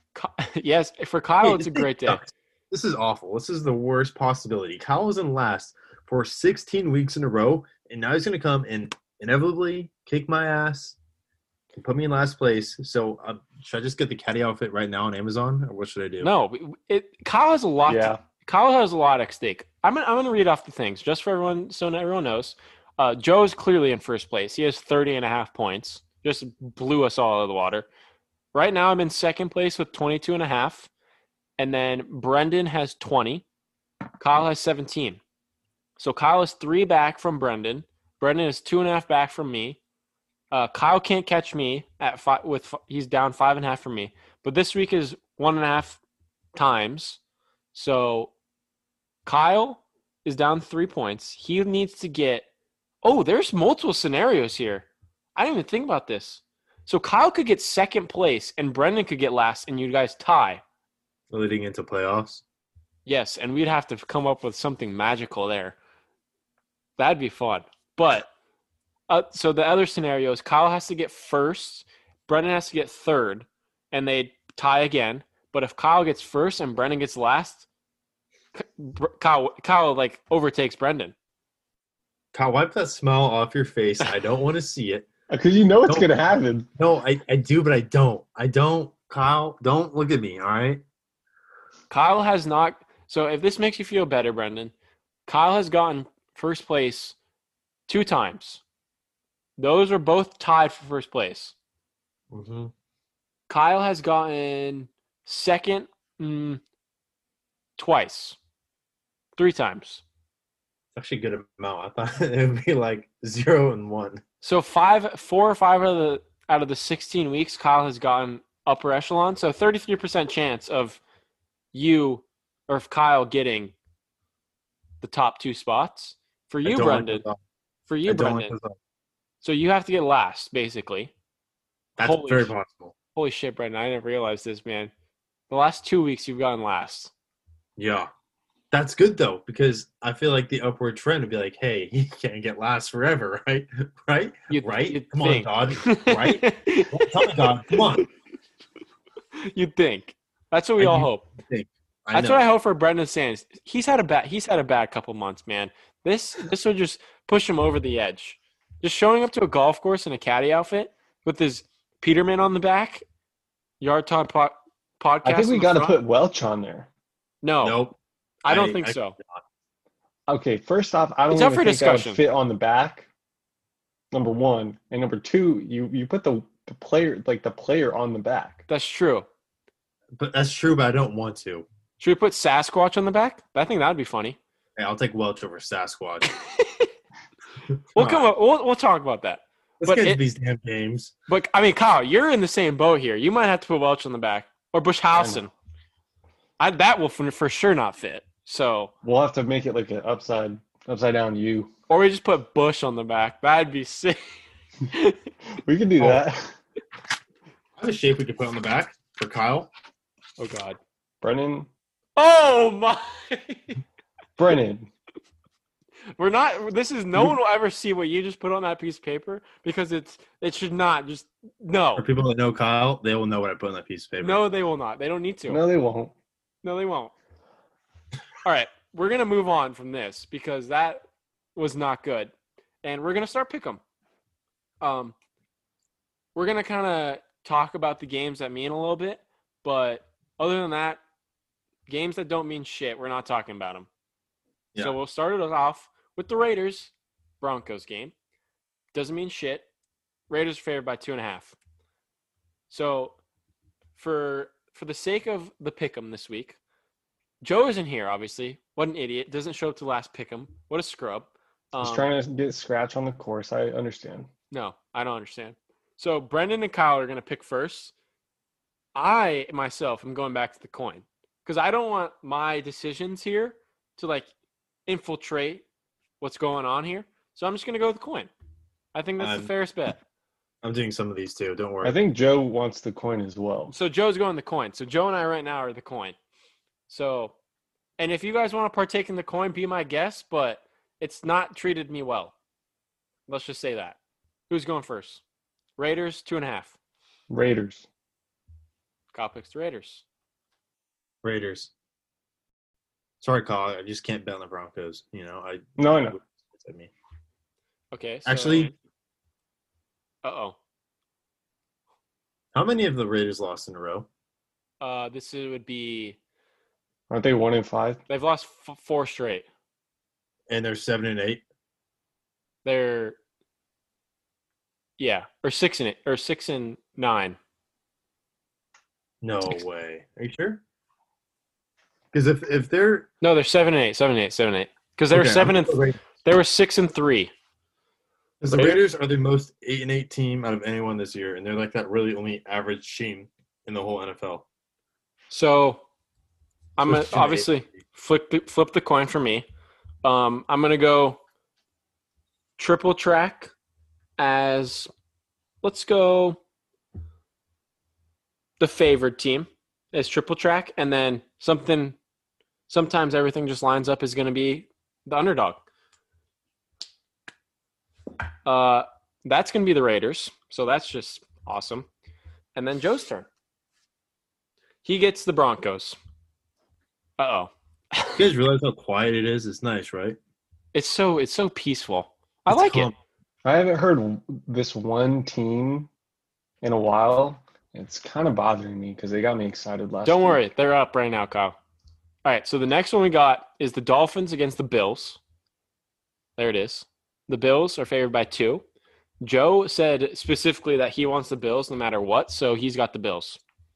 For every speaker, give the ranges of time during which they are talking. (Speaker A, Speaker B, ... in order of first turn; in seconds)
Speaker A: 0.1-2.3, 16.2-27.9, 28.5-30.9, 31.6-33.5, 34.2-35.2, 36.0-39.8, 40.5-46.0, 46.5-47.2, 47.7-48.3, 49.2-52.5, 53.0-60.6, 63.1-65.8, 67.0-68.3, 69.1-77.7, 78.5-81.1, 91.9-94.7, 95.2-97.2, 97.9-98.6, 99.6-101.5, 103.5-106.6, 107.8-108.4, 109.4-110.0, 114.4-121.0, 121.7-123.7, 125.0-127.2, 127.9-128.6, 129.4-131.1, 132.0-132.5, 133.1-134.9, 135.5-137.1, 144.5-148.0, 149.4-151.2, 152.1-163.0, 163.8-166.0, 167.4-167.8, 168.4-169.2, 171.3-172.2, 178.7-179.3, 182.0-184.4, 186.5-186.9, 187.9-190.2, 191.3-195.5, 196.6-198.9, 201.9-204.2, 204.9-205.2, 210.4-210.8, 212.2-213.8, 216.2-222.1, 224.2-225.6, 226.6-227.1, 228.4-231.0, 231.6-233.8, 234.8-235.1, 236.3-241.0, 241.9-243.9, 244.8-248.1, 248.9-249.7, 250.3-251.6, 252.7-253.2, 254.0-256.6, 257.4-262.1, 264.5-267.9, 268.9-274.3, 274.9-275.6, 276.2-278.3, 278.9-280.0, 283.7-286.1, 286.9-287.4, 288.0-292.3, 293.3-294.0, 294.5-295.2, 295.8-296.8, 299.1-300.0, 307.9-308.7, 310.2-310.6, 314.8-316.2, 318.1-319.5, 322.6-323.2, 325.0-327.4, 333.2-337.3, 338.5-338.8, 345.3-345.8, 346.8-349.5, 350.0-351.2, 352.6-353.5, 354.2-354.9, 355.6-356.4, 358.6-362.0, 362.7-365.6, 368.5-371.9, 372.6-373.3, 374.8-376.0, 377.2-378.2, 380.7-382.9, 390.0-391.5, 392.2-395.2, 396.4-398.6, 399.2-403.4
Speaker B: 1.4-11.0, 11.7-16.3, 61.3-62.4, 82.3-85.1, 86.8-90.8, 102.3-102.7, 111.0-114.2, 126.6-127.4, 128.1-128.8, 132.0-132.9, 137.8-138.1, 138.7-148.1, 150.8-152.4, 167.6-168.0, 168.5-169.4, 180.2-181.7, 184.8-186.3, 187.9-188.3, 189.8-191.1, 207.8-209.7, 222.0-224.4, 279.2-279.5, 280.6-282.0, 301.2-301.7, 303.2-306.9, 308.2-308.7, 312.5-314.1, 320.5-321.4, 329.2-330.6, 332.1-333.1, 335.1-336.0, 338.4-344.4, 346.8-347.5, 378.2-380.2, 382.5-382.9
Speaker C: 17.9-18.2, 85.3-86.7, 165.2-166.9, 170.3-173.1, 174.1-178.6, 195.1-195.4, 199.0-201.7, 205.6-206.6, 211.2-211.7, 214.4-214.9, 225.5-226.1, 261.8-264.3, 281.8-283.7, 297.3-297.9, 305.8-306.2, 317.1-318.0, 383.4-385.9, 386.6-390.4